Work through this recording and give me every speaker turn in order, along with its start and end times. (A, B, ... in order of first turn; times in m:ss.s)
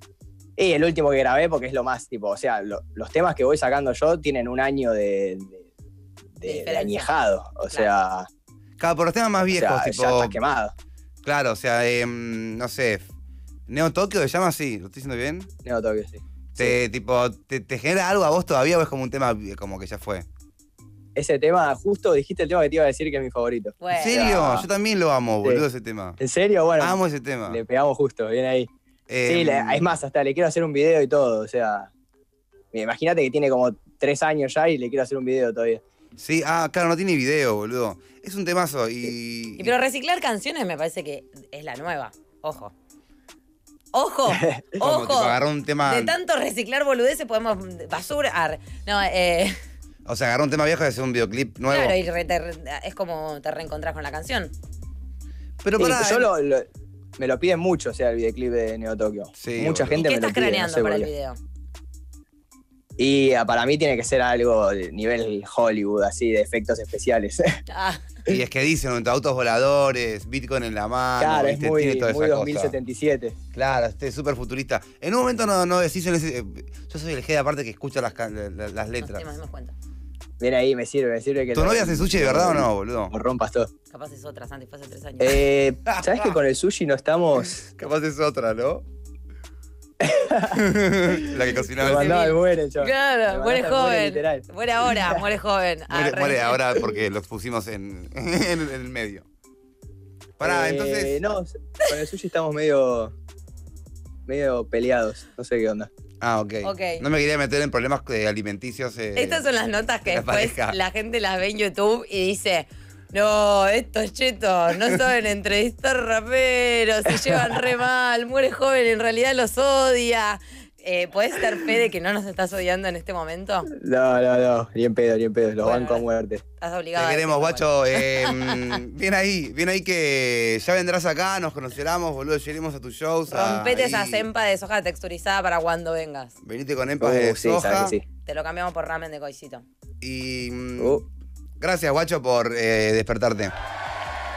0:00.6-0:05.6 A
0:06.4-0:08.3 A
0:06.4-0:07.1 B
0:08.8-0:10.4 C
0:09.4-0:10.7 A
0:11.2-0:13.0 C
0:13.7-0:15.5 C
0:15.6-0:16.8 A
0:16.5-0:20.3 C
0:21.2-0:24.7 A
0:23.8-0:24.2 B
0:23.9-0:26.2 C
0:26.2-0:28.7 A
0:26.8-0:27.6 C
0:29.1-0:29.9 C
0:29.3-0:31.9 A
0:32.7-0:35.8 A
0:36.2-0:39.7 C
0:39.6-0:42.7 B
0:43.9-0:49.6 B
0:44.3-0:44.8 A
0:44.8-0:46.1 C
0:50.0-0:52.0 C
0:51.7-0:54.5 B
0:55.6-0:56.3 C
0:55.8-0:56.6 A
0:57.2-1:01.1 A
0:59.4-1:00.0 C
1:00.0-1:01.4 B
1:03.0-1:07.6 A
1:07.7-1:08.0 B
1:08.3-1:12.8 C
1:11.2-1:13.4 A
1:13.5-1:19.3 C
1:19.0-1:19.7 B
1:20.4-1:23.7 A
1:21.5-1:23.1 C
1:23.9-1:25.4 B
1:25.2-1:27.6 A
1:25.9-1:26.4 C
1:27.4-1:28.8 C
1:30.0-1:35.2 A
1:30.5-1:32.2 C
1:31.8-1:36.6 B
1:35.9-1:39.2 C
1:40.4-1:41.2 C
1:40.4-1:43.1 A
1:44.3-1:45.9 A
1:46.2-1:49.4 C
1:46.6-1:47.0 B
1:49.2-2:03.7 B
1:50.1-1:50.8 C
1:57.1-1:57.6 A
2:03.7-2:06.4 A
2:05.6-2:06.0 B
2:06.6-2:08.8 B
2:06.9-2:14.3 C
2:13.3-2:16.3 B
2:16.4-2:18.0 C
2:17.0-2:18.0 A
2:18.2-2:19.6 B
2:20.0-2:21.0 C
2:20.8-2:21.0 A
2:21.6-2:23.5 C